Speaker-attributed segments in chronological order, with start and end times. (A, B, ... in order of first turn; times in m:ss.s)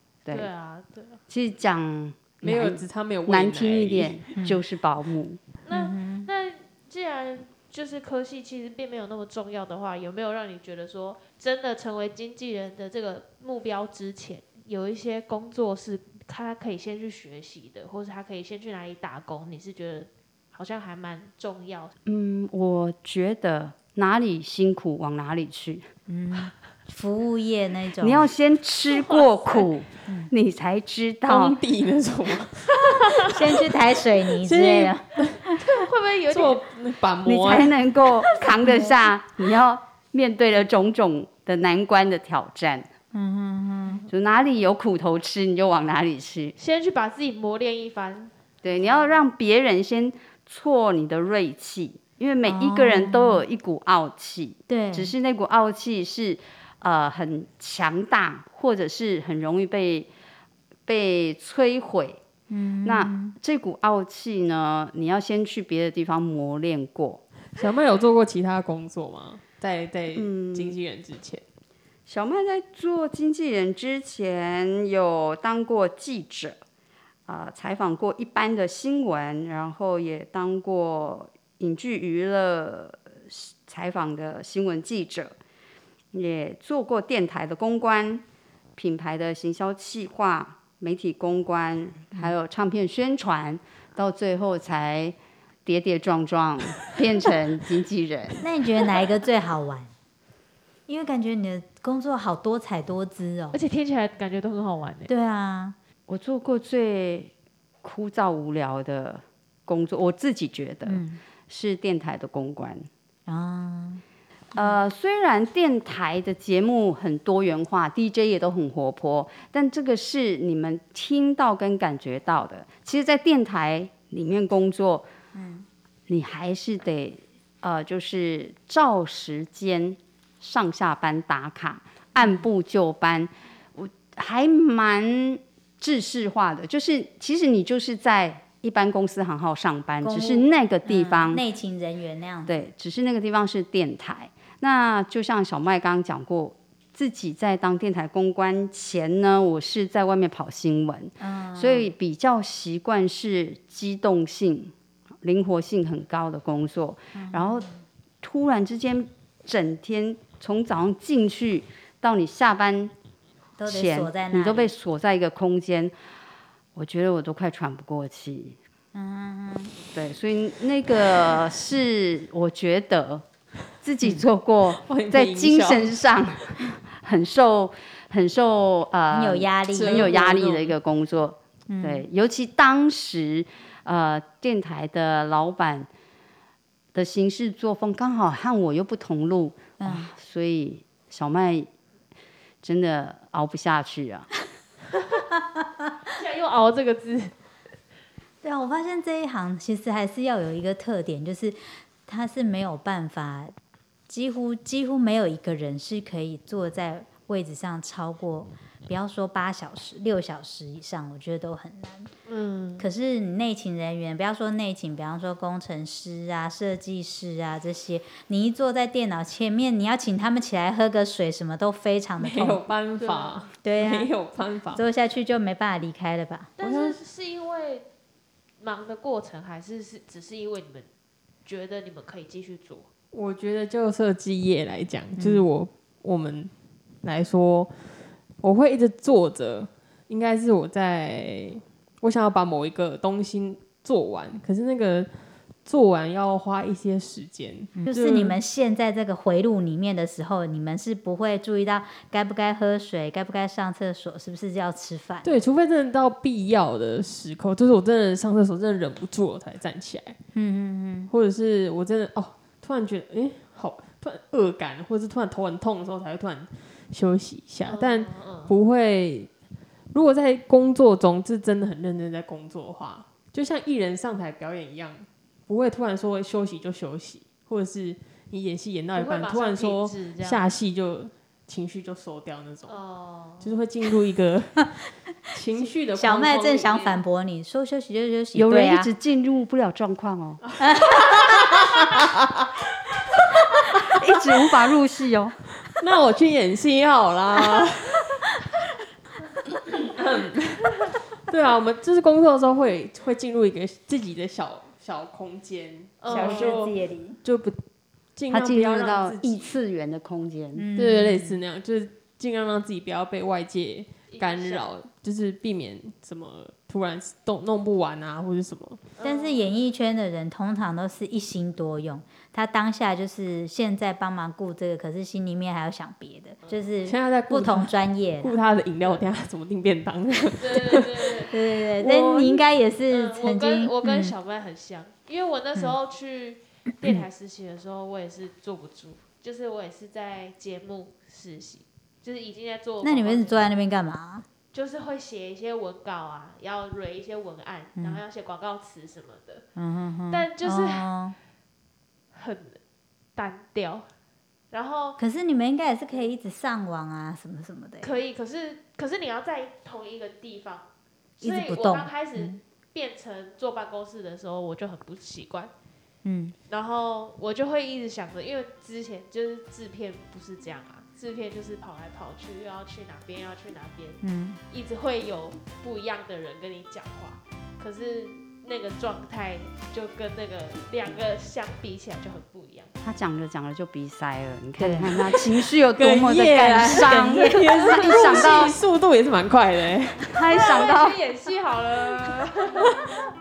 0:00.3-0:01.2 A
0:01.3-0:05.4 B
0:02.4-0:04.2 C
0:04.4-0:04.6 D
0:05.7-0:21.9 A
0:05.7-0:06.3 D
0:22.1-0:25.9 B
0:26.1-0:28.3 D
0:28.0-0:31.6 B
0:28.9-0:29.6 A
0:30.1-0:30.3 D
0:31.3-0:33.4 C
0:33.3-0:35.6 D
0:34.4-0:35.3 C
0:35.4-0:36.6 A
0:36.3-0:37.8 C
0:37.2-0:42.9 B
0:43.1-0:44.0 D
0:44.1-0:46.6 B
0:46.6-0:48.3 A
0:48.6-1:00.1 B
0:52.4-0:53.4 D
0:54.7-0:55.1 D
1:00.9-1:02.2 B
1:02.5-1:03.3 D
1:02.8-1:07.2 B
1:07.6-1:11.4 C
1:10.1-1:10.8 B
1:12.1-1:16.6 B
1:17.3-1:25.4 B
1:26.1-1:28.2 B
1:28.8-1:38.4 B
1:38.4-1:39.9 D
1:40.9-1:43.6 D
1:43.5-1:45.1 A
1:45.1-1:45.8 D
1:46.1-1:47.3 B
1:47.8-1:52.9 B
1:50.8-1:51.2 D
1:53.3-1:54.0 D
1:54.6-2:05.1 B
2:05.3-2:05.7 D
2:06.1-2:21.4 B
2:12.2-2:12.4 D
2:20.0-2:22.5 D
2:22.5-2:37.7 B
2:31.2-2:31.9 D
2:37.2-2:37.8 D
2:38.2-2:42.9 B
2:43.6-2:44.7 D
2:43.7-2:45.9 B
2:46.8-2:48.6 B
2:48.9-2:49.7 D
2:49.9-2:53.3 B
2:53.8-3:05.9 B
2:54.8-2:55.9 C
2:59.1-3:00.1 D
2:59.7-3:00.8 C
3:01.7-3:02.0 D
3:06.9-3:11.7 B
3:09.8-3:10.1 D
3:12.6-3:14.3 B
3:16.1-3:17.3 A
3:18.4-3:23.5 D
3:24.1-3:32.1 D
3:32.3-3:32.8 A
3:32.8-3:42.6 D
3:42.2-3:44.8 C
3:43.0-3:43.4 A
3:43.6-3:44.1 D
3:44.7-3:46.5 D
3:46.6-3:47.9 A
3:46.6-3:47.0 C
3:48.6-3:50.9 A
3:51.4-3:52.9 A
3:53.1-3:56.5 C
3:55.2-3:55.5 D
3:57.0-4:05.1 C
4:05.6-4:08.4 C
4:07.8-4:15.3 D
4:15.2-4:20.2 C
4:20.3-4:21.1 D
4:21.1-4:29.3 C
4:27.7-4:28.6 A
4:29.9-4:42.8 C
4:38.9-4:40.4 A
4:42.7-4:43.6 A
4:43.4-4:44.7 C
4:45.3-4:47.0 C
4:46.0-4:48.9 D
4:48.4-4:50.4 B
4:50.6-4:51.4 D
4:50.7-4:52.0 C
4:53.4-4:53.8 C
4:53.8-4:55.4 B
4:55.6-4:58.2 C
4:59.7-5:06.6 C
5:06.0-5:06.7 A
5:06.1-5:07.2 D
5:07.2-5:07.6 C
5:08.2-5:09.5 C
5:08.3-5:10.7 B
5:10.5-5:11.4 D
5:10.8-5:18.8 C
5:14.1-5:14.7 A
5:19.0-5:19.4 A
5:19.0-5:28.4 D
5:26.8-5:31.2 C
5:30.4-5:31.3 A
5:31.3-5:34.1 D
5:31.8-5:32.3 A
5:31.9-5:32.2 C
5:32.9-5:43.5 A
5:42.8-5:44.3 D
5:44.5-5:49.4 A
5:47.8-5:48.0 D
5:49.6-5:51.2 D
5:50.1-5:50.9 A
5:52.1-5:52.6 A
5:53.2-5:53.9 A
5:54.5-5:55.0 A
5:55.0-5:58.0 D
5:57.8-6:00.7 A
6:01.2-6:02.4 D
6:01.2-6:05.5 A
6:06.0-6:06.4 D
6:06.5-6:22.7 A
6:14.0-6:14.4 D
6:22.8-6:28.6 B
6:24.6-6:24.9 D
6:25.1-6:30.3 C
6:26.8-6:28.2 D
6:30.1-6:31.0 B
6:30.3-6:32.8 A